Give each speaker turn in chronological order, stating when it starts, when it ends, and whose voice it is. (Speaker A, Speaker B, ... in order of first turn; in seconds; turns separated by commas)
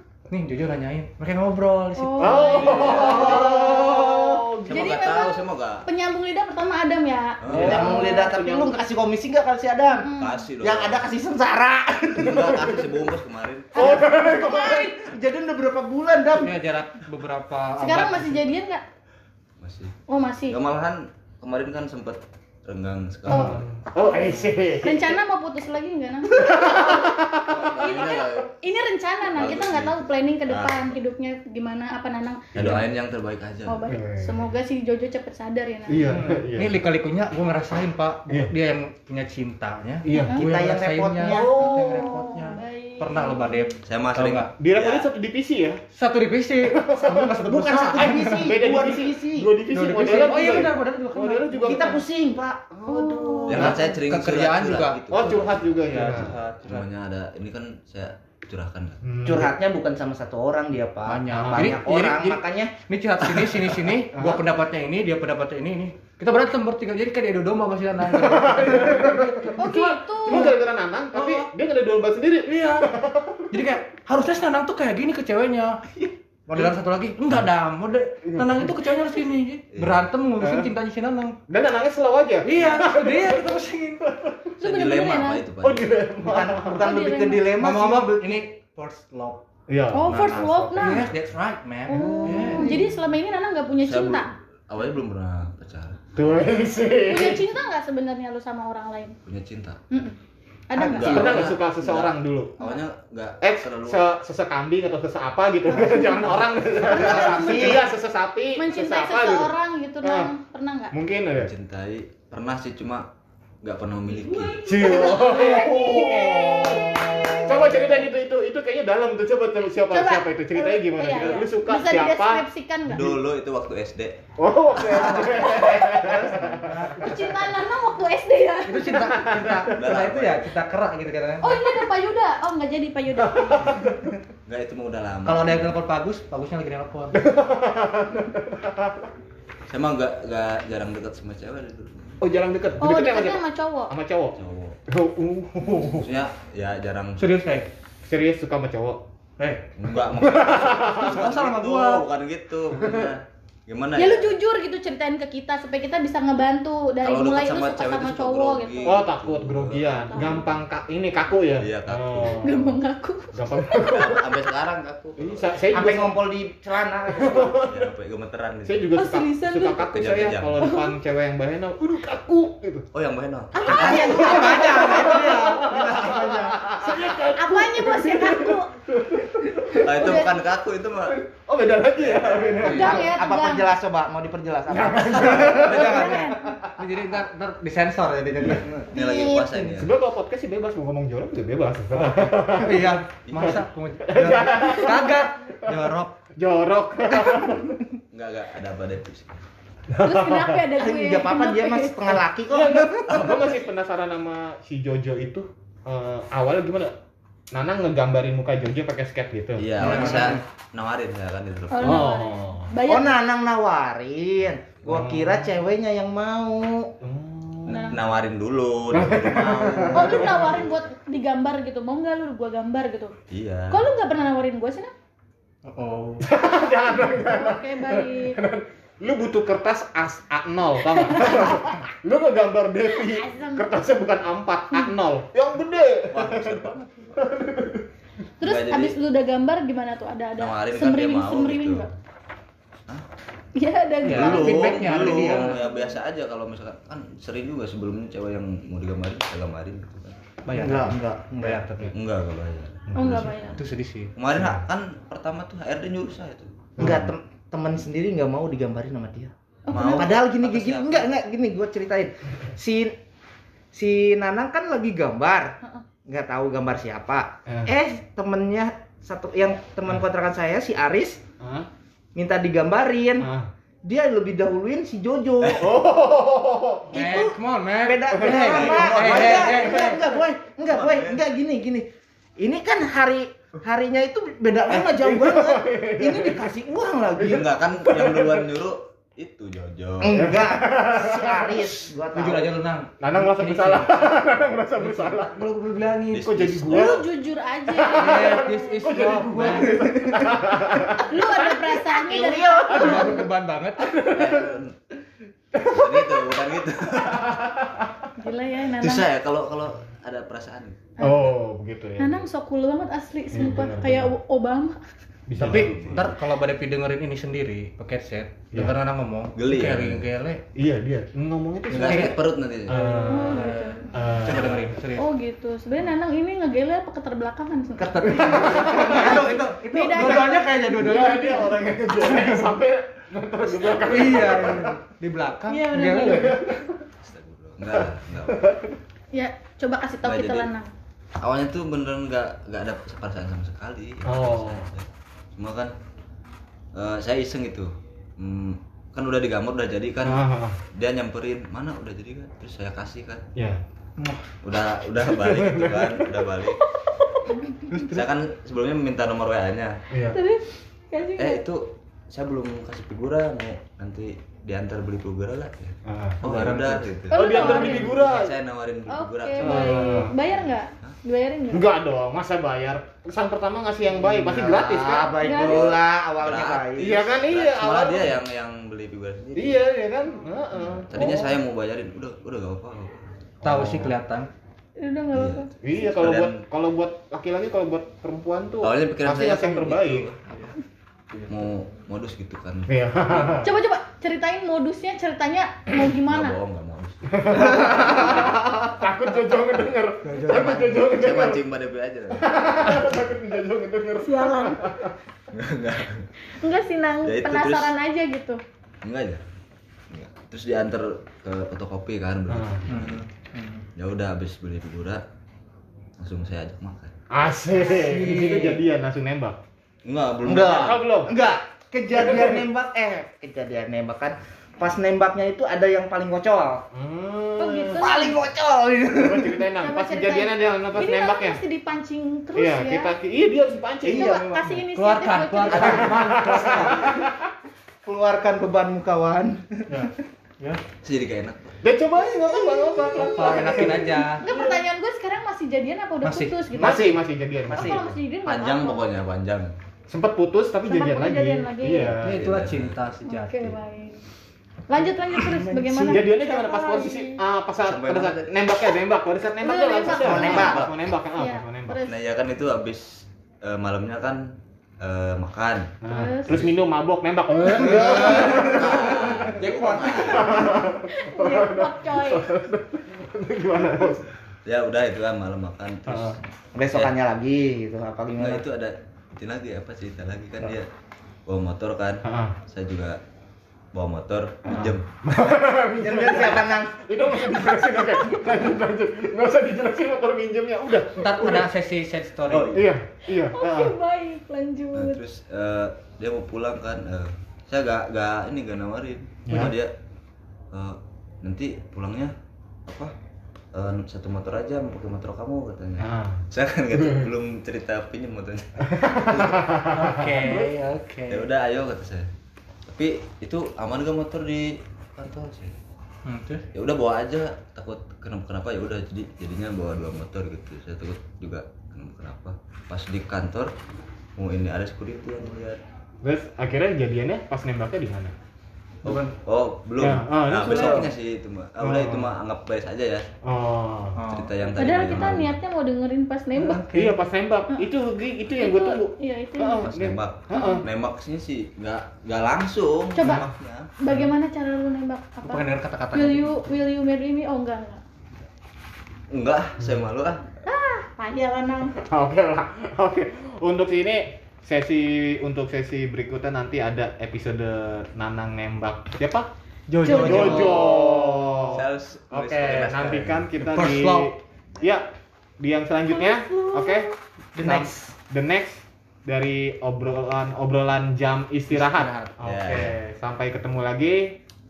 Speaker A: 0.3-3.0, Speaker B: 2.0-2.8, Speaker C: 2.2-4.9, Speaker D: 2.6-3.5, Speaker E: 2.7-4.4, Speaker B: 3.4-3.8, Speaker D: 4.7-5.8, Speaker B: 4.7-8.2, Speaker D: 7.4-7.8, Speaker C: 7.5-8.8, Speaker E: 7.5-12.7, Speaker B: 9.9-10.5, Speaker D: 10.2-11.1, Speaker D: 12.2-14.0, Speaker B: 13.7-14.9, Speaker C: 13.8-14.8, Speaker E: 14.3-16.5, Speaker A: 16.3-18.4, Speaker B: 17.8-18.8, Speaker D: 19.6-19.9, Speaker B: 20.1-20.6, Speaker D: 20.5-23.6, Speaker C: 23.2-25.2, Speaker B: 23.3-27.2, Speaker C: 26.3-27.8, Speaker D: 27.5-28.5, Speaker B: 27.7-32.5, Speaker D: 29.3-30.9, Speaker C: 32.5-32.9, Speaker D: 32.5-33.8, Speaker B: 33.6-36.0, Speaker C: 33.9-34.5, Speaker C: 35.9-36.8, Speaker A: 36.0-44.5, Speaker C: 40.0-40.4, Speaker B: 40.1-40.4, Speaker E: 40.3-41.5, Speaker B: 41.5-43.8, Speaker D: 43.8-45.1, Speaker C: 44.6-45.8, Speaker A: 45.9-48.5, Speaker C: 46.6-52.0, Speaker E: 47.4-49.5, Speaker A: 49.7-51.9, Speaker E: 51.6-52.6, Speaker C: 52.7-53.8, Speaker B: 52.9-53.8, Speaker D: 53.5-59.0, Speaker A: 53.5-55.0, Speaker C: 55.1-56.4, Speaker A: 55.9-56.9, Speaker C: 59.0-59.5, Speaker E: 59.2-62.7, Speaker A: 61.0-69.6, Speaker C: 61.3-61.8, Speaker C: 64.1-64.4, Speaker C: 68.1-73.5, Speaker B: 69.6-70.5, Speaker A: 70.3-70.5, Speaker A: 71.1-71.5, Speaker A: 72.5-72.9, Speaker A: 73.5-75.8, Speaker A: 76.5-81.4, Speaker C: 78.3-78.7, Speaker D: 79.7-80.0, Speaker C: 80.4-80.7, Speaker C: 81.5-84.5, Speaker A: 82.4-84.0, Speaker B: 84.6-85.4, Speaker D: 84.6-86.0, Speaker C: 85.6-86.8, Speaker E: 86.2-88.4, Speaker B: 86.8-87.6, Speaker A: 87.6-89.4, Speaker C: 89.7-90.2, Speaker B: 89.9-91.1, Speaker A: 90.0-92.7, Speaker B: 91.9-94.3, Speaker C: 91.9-92.7, Speaker D: 93.8-96.0, Speaker C: 96.2-97.5, Speaker B: 97.0-99.2, Speaker D: 99.2-99.8, Speaker B: 99.9-100.2, Speaker B: 100.7-101.3, Speaker E: 100.7-101.5, Speaker D: 100.9-104.0, Speaker C: 101.1-102.7, Speaker C: 103.4-110.3, Speaker B: 105.9-106.2, Speaker D: 106.9-107.6, Speaker E: 106.9-107.9, Speaker B: 108.6-110.9, Speaker C: 110.9-111.5, Speaker D: 111.4-113.1, Speaker D: 113.6-114.6, Speaker B: 114.3-117.4, Speaker C: 114.6-116.9, Speaker A: 115.2-116.9, Speaker E: 115.4-115.7, Speaker E: 116.7-117.3, Speaker C: 117.4-122.4, Speaker B: 119.9-123.1, Speaker D: 122.8-124.2, Speaker C: 124.4-126.7, Speaker E: 124.8-126.6, Speaker D: 124.8-125.2, Speaker A: 125.5-127.4, Speaker B: 127.0-129.2, Speaker A: 128.7-131.6, Speaker C: 128.9-129.7, Speaker D: 129.7-130.5, Speaker B: 131.4-133.8, Speaker C: 133.3-134.0, Speaker D: 134.4-135.7, Speaker A: 135.2-137.2, Speaker C: 137.1-139.0, Speaker D: 139.7-142.2, Speaker C: 142.2-144.4, Speaker B: 142.8-143.9, Speaker D: 144.3-144.8, Speaker C: 144.9-146.1, Speaker D: 145.9-147.2, Speaker A: 147.2-147.7, Speaker C: 148.1-149.0, Speaker A: 149.4-149.7, Speaker D: 149.8-154.3, Speaker C: 150.1-151.2, Speaker A: 150.8-152.0, Speaker B: 153.9-159.1, Speaker D: 157.0-160.4, Speaker C: 158.8-162.7, Speaker B: 159.9-160.4, Speaker D: 161.6-162.6, Speaker B: 162.3-163.9, Speaker C: 163.3-164.3, Speaker D: 163.8-165.5, Speaker C: 165.2-166.2, Speaker E: 165.7-167.5, Speaker C: 167.1-167.9, Speaker D: 167.6-168.9, Speaker C: 168.6-172.9, Speaker B: 169.0-169.9, Speaker D: 169.9-170.6, Speaker B: 170.6-170.9, Speaker D: 172.9-174.7, Speaker B: 173.6-175.2, Speaker E: 173.6-177.1, Speaker C: 173.7-180.2, Speaker B: 177.4-178.7, Speaker D: 179.8-181.2, Speaker B: 179.9-180.5, Speaker C: 181.1-183.2, Speaker D: 181.9-183.1, Speaker E: 182.6-186.7, Speaker B: 182.6-183.8, Speaker C: 184.7-186.2, Speaker D: 185.5-186.1, Speaker B: 185.9-186.6, Speaker A: 186.8-188.8, Speaker D: 188.5-189.9, Speaker B: 188.9-189.6, Speaker C: 189.7-195.8, Speaker A: 192.5-196.1, Speaker D: 193.3-193.6, Speaker C: 196.4-197.8, Speaker D: 198.1-199.4, Speaker C: 200.0-200.6, Speaker B: 200.0-202.0, Speaker E: 200.7-203.3, Speaker C: 202.5-206.9, Speaker D: 203.2-203.4, Speaker C: 207.5-210.4, Speaker D: 209.6-212.1, Speaker A: 209.8-210.4, Speaker E: 209.9-210.3, Speaker B: 211.7-213.2, Speaker C: 211.8-212.7, Speaker E: 212.8-216.9, Speaker C: 214.8-215.6, Speaker C: 217.0-217.9, Speaker B: 217.7-218.0, Speaker D: 217.7-220.5, Speaker C: 218.9-220.7, Speaker E: 219.7-220.2, Speaker B: 219.9-223.1, Speaker D: 223.3-223.8, Speaker B: 223.7-224.9, Speaker A: 225.6-226.2, Speaker C: 226.2-237.8, Speaker B: 226.7-228.4, Speaker B: 230.8-231.6, Speaker B: 232.9-233.8, Speaker D: 236.1-237.1, Speaker B: 238.4-241.9, Speaker D: 238.4-239.0, Speaker D: 240.4-241.9, Speaker B: 243.6-246.0, Speaker A: 244.0-245.6, Speaker D: 244.1-250.2, Speaker A: 250.4-251.9, Speaker E: 250.5-251.6, Speaker D: 251.9-253.6, Speaker B: 252.9-253.6, Speaker A: 253.5-254.1, Speaker D: 254.1-256.7, Speaker C: 254.3-254.6, Speaker C: 256.8-257.1, Speaker E: 256.8-259.3, Speaker B: 259.7-260.1, Speaker D: 259.7-261.1, Speaker E: 259.9-262.9, Speaker E: 263.7-265.5, Speaker B: 265.6-265.9, Speaker E: 266.1-271.2, Speaker C: 267.5-267.7, Speaker C: 271.4-271.7, Speaker E: 272.1-273.3, Speaker C: 273.2-273.4, Speaker E: 273.8-275.7, Speaker C: 275.4-277.0, Speaker E: 276.9-287.5, Speaker A: 276.9-280.0, Speaker C: 278.1-278.8, Speaker D: 278.4-281.2, Speaker C: 284.7-286.6, Speaker C: 287.1-288.5, Speaker D: 287.2-290.3, Speaker E: 290.0-292.5, Speaker C: 290.1-291.7, Speaker A: 292.1-296.3, Speaker C: 293.0-295.4, Speaker D: 296.1-297.0, Speaker C: 296.2-297.1, Speaker B: 296.7-298.7, Speaker C: 297.7-301.3, Speaker A: 297.9-299.9, Speaker E: 299.6-300.3, Speaker B: 301.1-303.1, Speaker E: 301.9-302.9, Speaker C: 302.7-304.6, Speaker A: 302.7-304.0, Speaker D: 304.1-304.7, Speaker C: 305.5-308.1, Speaker D: 305.6-307.4, Speaker B: 308.2-309.1, Speaker D: 308.8-310.8, Speaker B: 311.0-311.4, Speaker C: 311.0-312.2, Speaker B: 312.0-314.8, Speaker C: 313.3-314.2, Speaker C: 315.3-316.1, Speaker A: 315.4-320.4, Speaker D: 315.4-316.1, Speaker D: 319.3-320.1, Speaker C: 320.6-324.7, Speaker D: 321.7-322.8, Speaker A: 321.7-322.2, Speaker A: 322.7-325.1, Speaker B: 323.1-324.0, Speaker B: 324.9-328.0, Speaker A: 327.8-329.3, Speaker E: 327.9-331.1, Speaker C: 328.1-329.2, Speaker B: 329.0-330.9, Speaker A: 329.9-332.6, Speaker C: 330.6-334.8, Speaker D: 333.7-334.4, Speaker A: 333.8-336.4, Speaker B: 335.5-336.4, Speaker C: 336.0-336.8, Speaker D: 337.0-338.4, Speaker B: 339.1-340.7, Speaker D: 340.0-340.5, Speaker D: 341.2-345.7, Speaker C: 344.0-344.7, Speaker D: 346.7-353.2, Speaker C: 350.0-350.6, Speaker A: 354.0-354.2, Speaker D: 354.4-356.6, Speaker C: 355.2-356.0, Speaker B: 357.1-357.6, Speaker A: 357.7-358.0, Speaker D: 357.9-359.8, Speaker C: 359.9-360.2, Speaker B: 360.1-361.4, Speaker D: 361.1-370.9, Speaker C: 365.9-366.2, Speaker A: 366.2-366.9, Speaker B: 367.1-367.9, Speaker C: 367.1-368.3, Speaker B: 368.9-371.6, Speaker C: 369.4-370.1, Speaker C: 371.5-375.2, Speaker E: 374.0-376.9, Speaker B: 375.1-375.7, Speaker D: 375.4-379.6, Speaker C: 376.8-378.2, Speaker C: 379.3-381.4, Speaker D: 380.9-383.1, Speaker C: 383.4-383.9, Speaker A: 383.4-384.3, Speaker B: 384.8-385.5, Speaker D: 385.1-386.4, Speaker C: 385.6-390.1, Speaker D: 388.6-390.5, Speaker D: 391.3-392.7, Speaker C: 392.7-393.5, Speaker B: 393.2-396.4, Speaker D: 396.0-398.4, Speaker C: 397.1-401.4, Speaker A: 400.0-400.9, Speaker D: 400.4-402.8, Speaker C: 402.1-404.9, Speaker B: 404.0-404.6, Speaker D: 405.3-406.1, Speaker B: 406.4-408.4, Speaker D: 407.0-407.7, Speaker D: 408.8-409.2, Speaker D: 409.9-413.0, Speaker C: 412.3-412.6, Speaker A: 412.7-413.6, Speaker D: 413.8-415.0, Speaker D: 416.0-416.9, Speaker C: 417.1-419.4, Speaker A: 417.6-418.6, Speaker D: 419.8-420.7, Speaker E: 420.2-426.6, Speaker C: 420.5-421.1, Speaker C: 421.9-422.4, Speaker C: 426.7-427.8, Speaker B: 427.4-428.2, Speaker E: 427.8-429.5, Speaker C: 429.0-431.4, Speaker B: 429.6-432.9, Speaker C: 432.4-434.5, Speaker E: 433.8-434.4, Speaker B: 433.9-435.7, Speaker A: 434.7-436.9, Speaker E: 435.5-436.9, Speaker C: 435.6-437.1, Speaker E: 437.8-439.9, Speaker A: 439.7-440.6, Speaker D: 440.8-441.4, Speaker C: 441.6-444.6, Speaker B: 442.0-443.3, Speaker A: 443.0-444.2, Speaker B: 444.1-449.0, Speaker A: 446.0-446.5, Speaker C: 446.5-448.0, Speaker E: 447.5-447.9, Speaker D: 448.2-449.5, Speaker C: 449.9-452.2, Speaker B: 450.6-452.0, Speaker A: 452.0-453.5, Speaker D: 452.0-452.8, Speaker B: 453.0-454.0, Speaker B: 454.7-457.2, Speaker E: 455.1-456.1, Speaker C: 455.9-461.8, Speaker D: 457.6-458.3, Speaker B: 459.4-460.1, Speaker D: 459.8-460.8, Speaker E: 460.0-460.7, Speaker B: 461.1-462.0, Speaker D: 461.9-465.7, Speaker C: 465.8-469.5, Speaker B: 465.9-466.4, Speaker E: 467.6-468.8, Speaker D: 467.8-470.4, Speaker A: 469.2-470.4, Speaker C: 470.0-474.1, Speaker B: 470.5-472.3, Speaker D: 474.4-476.2, Speaker C: 475.9-476.2, Speaker E: 476.5-478.4, Speaker D: 478.2-480.7, Speaker D: 481.2-483.0, Speaker C: 482.0-482.3, Speaker D: 483.7-484.9, Speaker C: 484.5-491.4, Speaker E: 485.8-486.8, Speaker B: 488.0-488.3, Speaker A: 491.0-492.5, Speaker D: 492.3-492.7, Speaker C: 492.5-493.8, Speaker B: 493.1-495.0, Speaker D: 494.7-499.7, Speaker C: 499.3-499.5, Speaker D: 500.5-502.1, Speaker D: 502.7-502.9, Speaker D: 503.5-509.4, Speaker C: 505.8-506.2, Speaker C: 508.7-510.5, Speaker A: 509.7-511.3, Speaker D: 511.1-512.1, Speaker D: 512.7-515.5, Speaker A: 516.0-516.4, Speaker D: 516.5-523.5, Speaker D: 524.2-525.6, Speaker C: 526.0-528.1, Speaker A: 528.8-529.1, Speaker D: 528.8-533.1, Speaker C: 529.8-530.9, Speaker C: 531.6-532.1, Speaker C: 533.2-534.0, Speaker A: 533.9-534.3, Speaker D: 534.1-535.4, Speaker B: 534.5-536.7, Speaker A: 536.3-537.0, Speaker C: 536.7-540.6, Speaker B: 538.4-539.7, Speaker D: 539.6-543.7, Speaker B: 540.3-540.6, Speaker B: 542.9-543.3, Speaker C: 543.0-543.3, Speaker B: 543.8-547.8, Speaker A: 545.2-546.4, Speaker D: 549.1-550.3, Speaker B: 550.5-551.8, Speaker C: 551.8-559.3, Speaker A: 559.7-560.8, Speaker B: 559.8-560.6, Speaker C: 559.9-574.2, Speaker D: 560.0-563.2, Speaker A: 563.4-564.2, Speaker B: 565.9-566.9, Speaker E: 567.4-567.9, Speaker A: 571.5-572.1, Speaker D: 572.2-572.8